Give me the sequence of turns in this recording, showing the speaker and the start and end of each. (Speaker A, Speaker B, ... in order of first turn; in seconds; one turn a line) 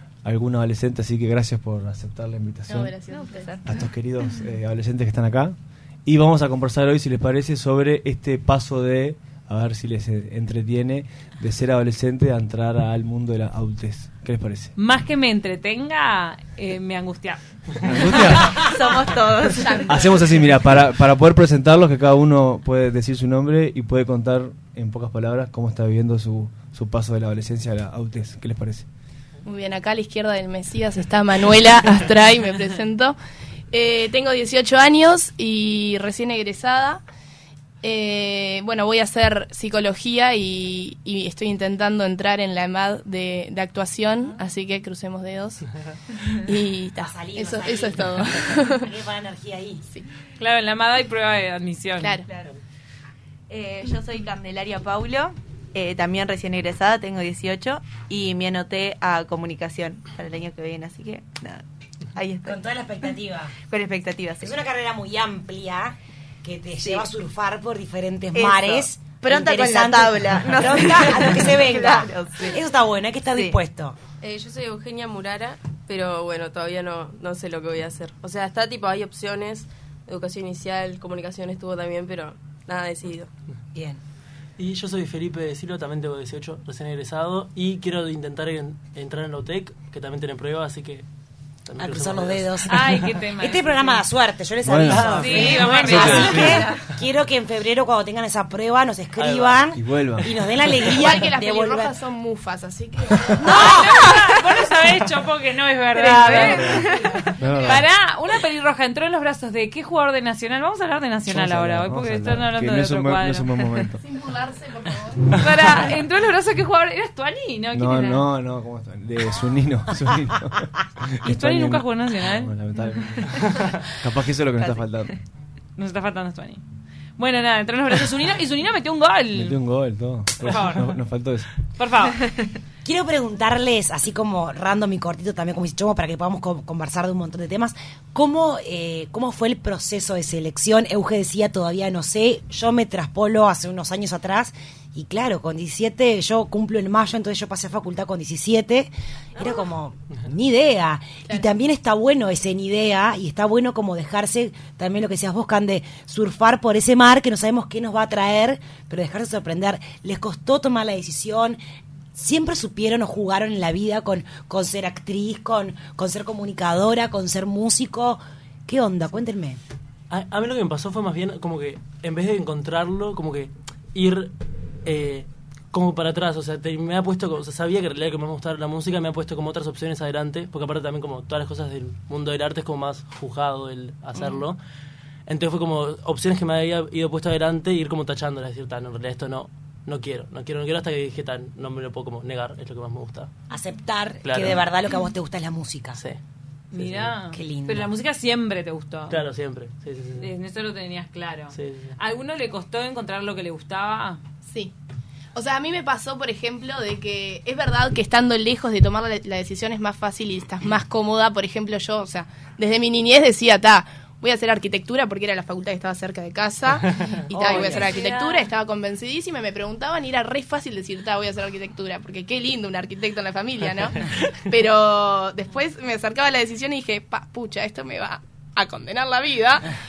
Speaker A: 0.2-3.0
Speaker B: 2.7-3.5
Speaker C: 3.1-3.6
Speaker A: 3.6-14.7
Speaker D: 14.8-17.4
Speaker A: 17.8-18.6
Speaker C: 18.5-20.1
Speaker B: 19.6-20.2
Speaker A: 19.9-28.9
Speaker B: 29.4-33.1
Speaker B: 33.7-37.0
Speaker B: 37.8-45.6
Speaker B: 46.4-48.9
Speaker E: 47.0-49.8
Speaker D: 50.4-52.2
Speaker C: 52.2-52.6
Speaker C: 53.5-62.6
Speaker E: 62.4-63.6
Speaker C: 63.7-64.6
Speaker E: 64.4-74.0
Speaker C: 66.8-67.1
Speaker C: 68.3-72.6
Speaker C: 73.3-73.6
Speaker F: 74.2-83.3
Speaker E: 83.7-84.0
Speaker G: 84.6-91.0
Speaker G: 91.7-93.0
Speaker E: 91.8-102.0
Speaker D: 92.7-94.0
Speaker A: 94.6-95.2
Speaker G: 94.9-96.7
Speaker D: 95.0-96.5
Speaker A: 95.9-96.5
Speaker G: 99.2-101.1
Speaker A: 99.8-100.2
Speaker B: 101.0-103.4
Speaker D: 103.5-107.0
Speaker E: 103.5-104.1
Speaker B: 106.0-107.3
Speaker A: 106.4-107.8
Speaker D: 107.6-113.9
Speaker A: 111.3-114.0
Speaker B: 114.0-115.2
Speaker D: 115.3-118.2
Speaker A: 117.7-125.2
Speaker D: 121.2-122.5
Speaker D: 123.2-123.6
Speaker D: 125.8-126.6
Speaker D: 127.2-129.6
Speaker A: 129.3-131.5
Speaker D: 130.4-130.9
Speaker D: 131.8-132.3
Speaker E: 132.8-161.6
Speaker E: 162.1-169.6
Speaker G: 170.1-174.3
Speaker G: 174.8-184.6
Speaker G: 185.3-193.3
Speaker E: 193.5-196.0
Speaker G: 194.2-194.6
Speaker D: 196.7-199.2
Speaker G: 196.7-197.1
Speaker E: 197.3-197.9
Speaker G: 199.1-200.3
Speaker D: 200.2-204.2
Speaker G: 201.5-201.9
Speaker B: 204.5-204.7
Speaker B: 205.3-229.7
Speaker E: 217.4-217.8
Speaker D: 217.5-218.5